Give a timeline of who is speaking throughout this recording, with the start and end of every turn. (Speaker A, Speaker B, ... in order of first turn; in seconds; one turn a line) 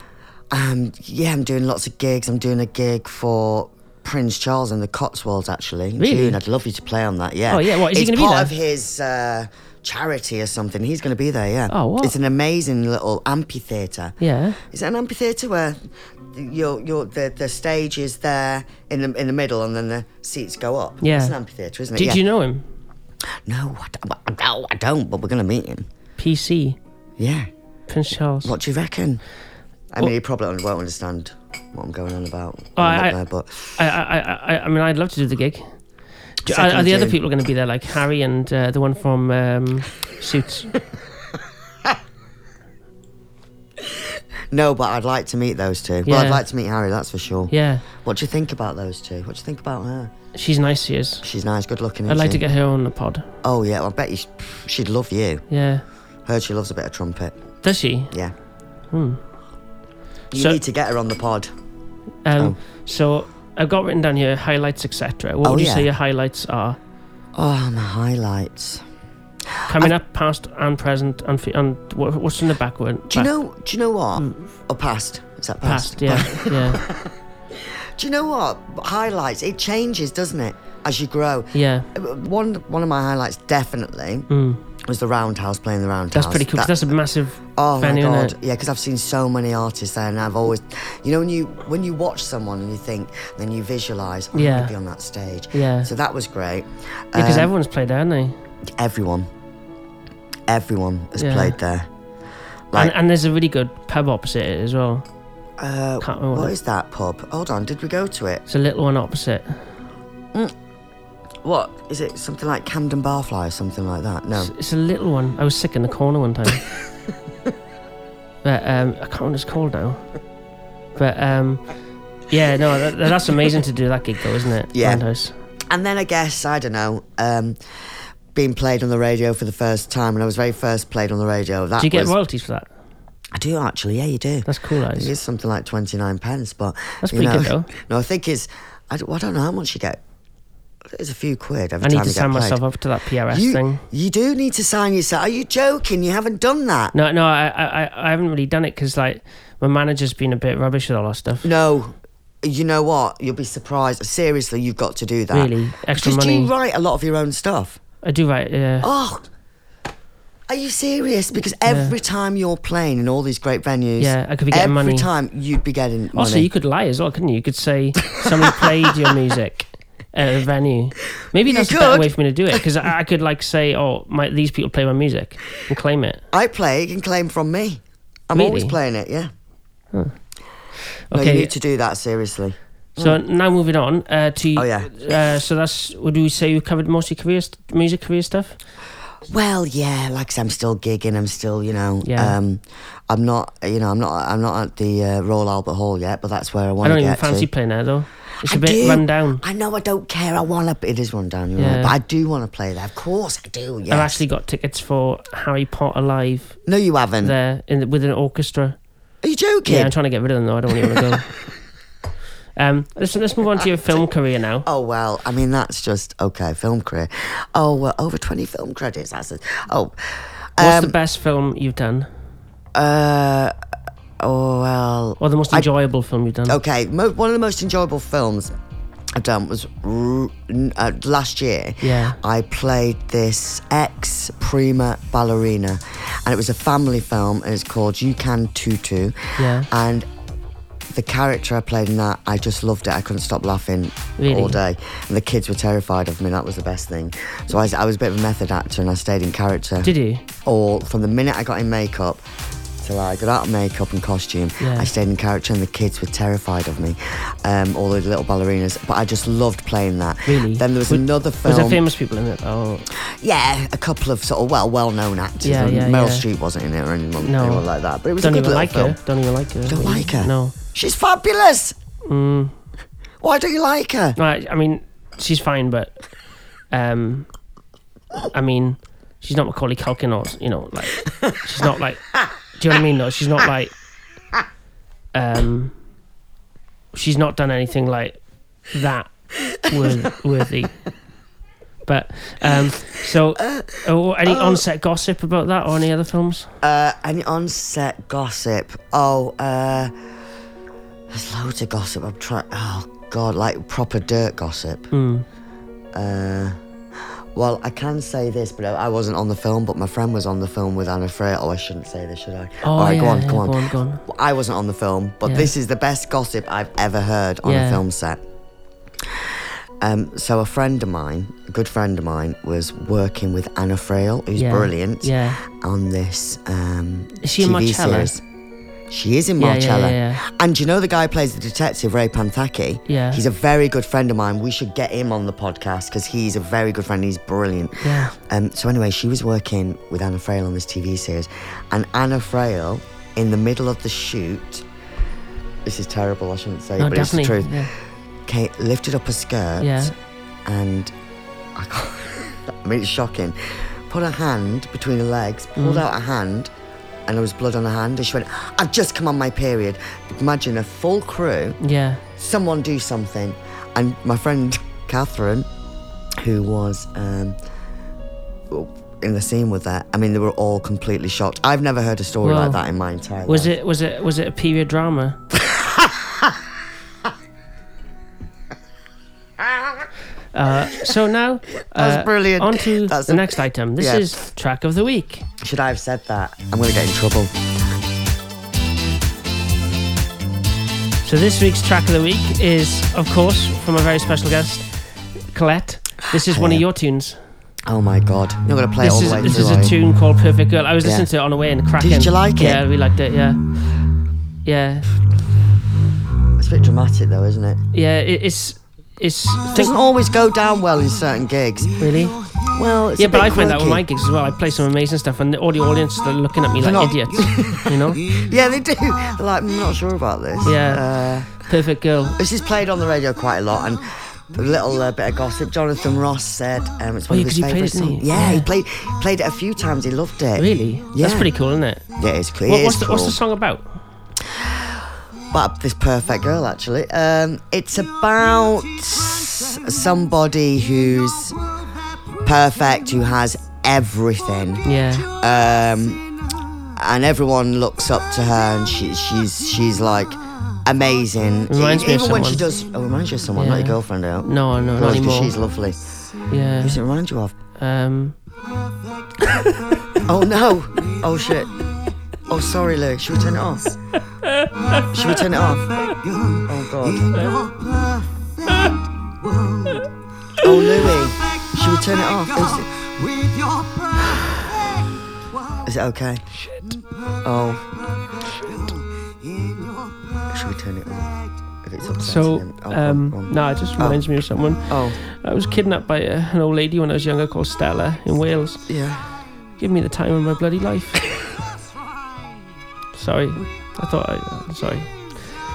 Speaker A: 0.5-22.2
Speaker B: 6.0-6.4
Speaker B: 7.5-8.5
Speaker B: 11.7-12.1
Speaker B: 14.2-14.6
Speaker B: 21.0-21.3
Speaker B: 21.9-22.6
Speaker A: 23.4-25.8
Speaker B: 26.2-26.8
Speaker A: 27.2-27.5
Speaker B: 27.9-28.5
Speaker A: 28.4-29.2
Speaker A: 29.9-33.8
Speaker B: 32.8-33.2
Speaker B: 33.8-35.7
Speaker A: 36.4-37.2
Speaker B: 36.4-40.8
Speaker A: 43.8-50.1
Speaker B: 46.0-46.4
Speaker B: 47.5-47.9
Speaker B: 50.3-51.2
Speaker A: 51.2-52.4
Speaker B: 52.1-53.3
Speaker A: 53.4-55.4
Speaker B: 55.5-55.8
Speaker A: 56.2-57.4
Speaker B: 57.6-58.1
Speaker B: 58.9-59.2
Speaker A: 60.3-61.5
Speaker B: 60.3-60.6
Speaker B: 62.2-66.8
Speaker A: 65.4-65.9
Speaker A: 67.3-68.8
Speaker A: 69.5-69.9
Speaker B: 69.7-73.3
Speaker A: 73.1-84.3
Speaker B: 74.2-74.5
Speaker B: 75.6-76.8
Speaker B: 81.5-81.9
Speaker B: 84.3-84.6
Speaker A: 84.8-86.8
Speaker B: 86.1-88.3
Speaker A: 87.6-97.5
Speaker B: 94.3-94.7
Speaker B: 95.5-95.9
Speaker B: 97.1-98.4
Speaker A: 98.8-99.3
Speaker A: 100.5-101.9
Speaker B: 101.2-101.5
Speaker B: 102.7-105.0
Speaker A: 105.6-108.4
Speaker B: 106.0-106.5
Speaker B: 108.5-109.6
Speaker A: 111.4-114.5
Speaker B: 114.3-116.6
Speaker B: 118.4-120.0
Speaker B: 121.0-121.7
Speaker B: 122.3-125.3
Speaker A: 124.7-125.0
Speaker A: 125.7-127.6
Speaker A: 128.3-132.1
Speaker B: 131.8-132.7
Speaker A: 133.3-140.0
Speaker B: 134.4-135.1
Speaker B: 137.0-137.7
Speaker A: 140.9-142.6
Speaker B: 141.8-143.8
Speaker A: 143.3-146.9
Speaker B: 146.9-151.5
Speaker A: 151.4-157.8
Speaker B: 155.3-156.5
Speaker B: 158.0-158.9
Speaker A: 158.8-159.2
Speaker A: 160.5-166.5
Speaker B: 161.7-161.9
Speaker B: 164.0-165.1
Speaker B: 166.1-176.2
Speaker A: 168.1-169.1
Speaker A: 171.4-172.7
Speaker A: 176.3-179.3
Speaker B: 178.3-178.8
Speaker B: 181.1-181.5
Speaker A: 181.1-183.2
Speaker B: 183.0-188.6
Speaker A: 184.6-184.9
Speaker A: 189.2-197.5
Speaker B: 192.0-192.3
Speaker B: 196.8-199.4
Speaker A: 198.4-204.2
Speaker B: 201.6-201.9
Speaker B: 203.9-206.6
Speaker A: 206.7-207.3
Speaker B: 207.2-208.8
Speaker A: 209.2-209.9
Speaker B: 209.6-211.3
Speaker A: 210.8-211.1
Speaker B: 212.6-214.7
Speaker A: 214.6-220.9
Speaker B: 220.6-222.1
Speaker A: 222.7-223.5
Speaker A: 224.2-225.7
Speaker B: 225.2-226.6
Speaker A: 226.5-228.5
Speaker A: 229.2-240.1
Speaker B: 231.8-232.2
Speaker B: 239.4-239.7
Speaker A: 240.9-249.9
Speaker B: 244.2-244.6
Speaker B: 249.8-250.2
Speaker A: 250.4-252.2
Speaker A: 252.8-261.8
Speaker B: 254.6-254.9
Speaker B: 260.3-262.9
Speaker A: 262.9-269.0
Speaker B: 265.4-266.2
Speaker B: 267.2-267.6
Speaker B: 268.2-270.5
Speaker A: 269.7-271.8
Speaker B: 272.0-272.6
Speaker A: 273.2-274.2
Speaker B: 274.1-275.9
Speaker B: 276.7-277.3
Speaker B: 278.3-283.7
Speaker B: 285.1-285.8
Speaker B: 286.9-290.7
Speaker A: 289.4-290.1
Speaker B: 291.9-296.5
Speaker A: 293.4-294.6
Speaker A: 296.6-299.9
Speaker A: 301.1-304.9
Speaker B: 304.9-305.2
Speaker A: 305.9-306.6
Speaker A: 307.3-318.2
Speaker B: 312.6-314.0
Speaker B: 315.2-315.5
Speaker B: 317.4-317.8
Speaker A: 319.0-328.2
Speaker B: 324.4-325.4
Speaker B: 327.2-328.1
Speaker A: 328.9-344.6
Speaker B: 329.4-330.2
Speaker B: 332.9-333.2
Speaker B: 337.8-338.1
Speaker A: 345.6-347.7
Speaker B: 346.8-347.7
Speaker A: 348.2-349.9
Speaker B: 349.6-349.9
Speaker A: 350.4-350.9
Speaker A: 351.5-356.5
Speaker B: 355.6-355.8
Speaker A: 357.1-361.6
Speaker B: 361.6-362.0
Speaker A: 362.2-365.5
Speaker A: 366.2-367.4
Speaker A: 368.5-373.5
Speaker B: 372.2-372.6
Speaker B: 373.2-375.2
Speaker A: 375.3-376.4
Speaker B: 380.3-385.2
Speaker A: 381.7-384.1
Speaker A: 385.4-387.3
Speaker B: 391.0-394.7
Speaker B: 395.3-397.2
Speaker A: 396.2-396.6
Speaker A: 397.7-399.7
Speaker B: 398.8-403.4
Speaker A: 400.8-401.1
Speaker A: 401.8-402.6
Speaker B: 404.4-404.9
Speaker A: 406.4-407.6
Speaker B: 407.7-409.7
Speaker A: 409.4-413.8
Speaker B: 411.8-412.2
Speaker B: 413.0-418.1
Speaker A: 416.6-421.3
Speaker B: 420.4-422.2
Speaker A: 422.2-431.3
Speaker B: 427.1-428.5
Speaker B: 430.4-431.8
Speaker A: 432.0-433.2
Speaker B: 432.4-433.7
Speaker A: 434.2-441.4
Speaker A: 442.2-446.0
Speaker B: 444.6-445.1
Speaker A: 446.7-455.8
Speaker B: 451.5-452.4
Speaker B: 453.4-455.3
Speaker B: 456.3-456.8
Speaker A: 456.6-457.3
Speaker B: 457.6-458.1
Speaker B: 459.2-459.5
Speaker A: 460.0-461.6
Speaker A: 462.3-463.8
Speaker B: 464.2-465.2
Speaker A: 464.9-467.6
Speaker A: 469.4-469.8
Speaker A: 470.4-474.5
Speaker A: 475.6-476.2
Speaker A: 477.2-484.0
Speaker B: 481.9-488.6
Speaker A: 484.7-485.0
Speaker A: 488.7-489.1
Speaker B: 489.6-491.0
Speaker B: 492.9-494.9